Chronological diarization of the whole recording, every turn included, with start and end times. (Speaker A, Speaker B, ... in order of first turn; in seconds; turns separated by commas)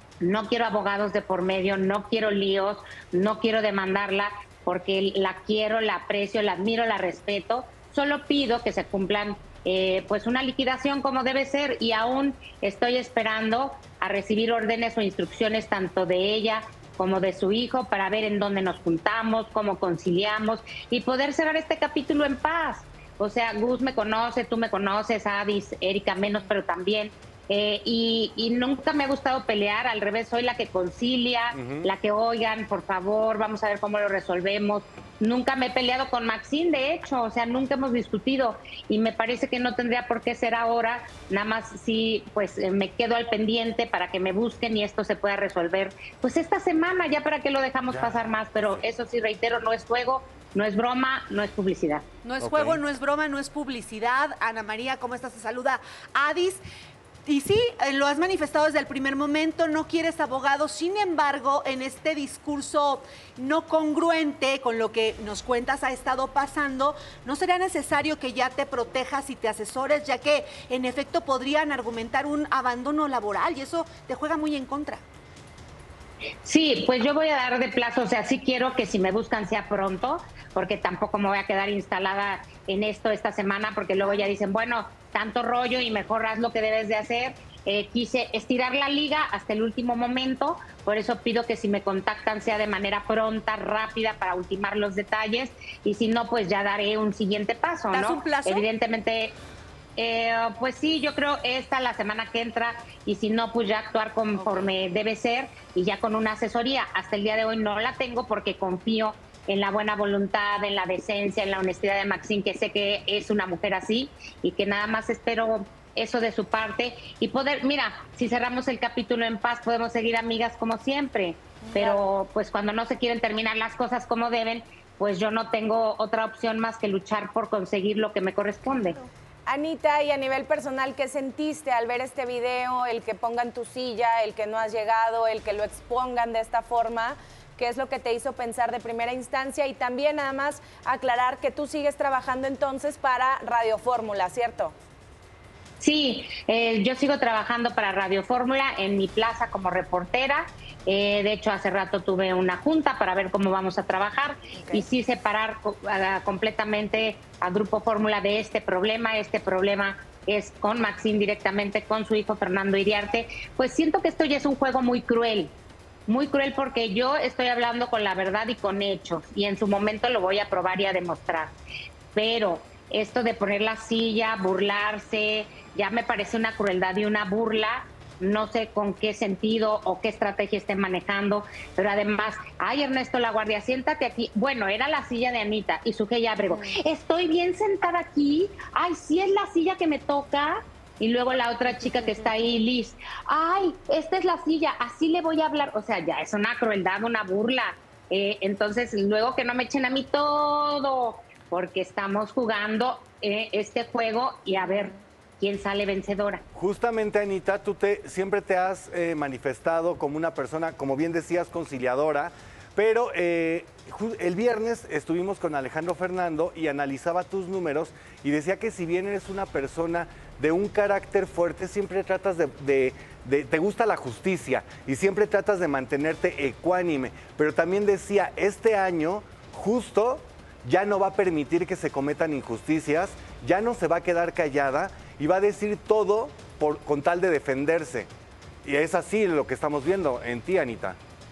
Speaker A: 0.2-52.0, Speaker B: 31.5-31.9, Speaker B: 47.9-48.9, Speaker C: 52.2-56.6, Speaker B: 52.4-52.8, Speaker C: 57.3-75.0, Speaker A: 76.4-99.3, Speaker C: 97.9-98.7, Speaker A: 100.0-129.0, Speaker D: 129.5-144.8, Speaker A: 145.8-165.5, Speaker D: 154.6-154.8, Speaker A: 166.1-171.6, Speaker A: 172.1-206.4, Speaker D: 186.5-186.8, Speaker B: 206.6-238.1, Speaker B: 238.6-241.0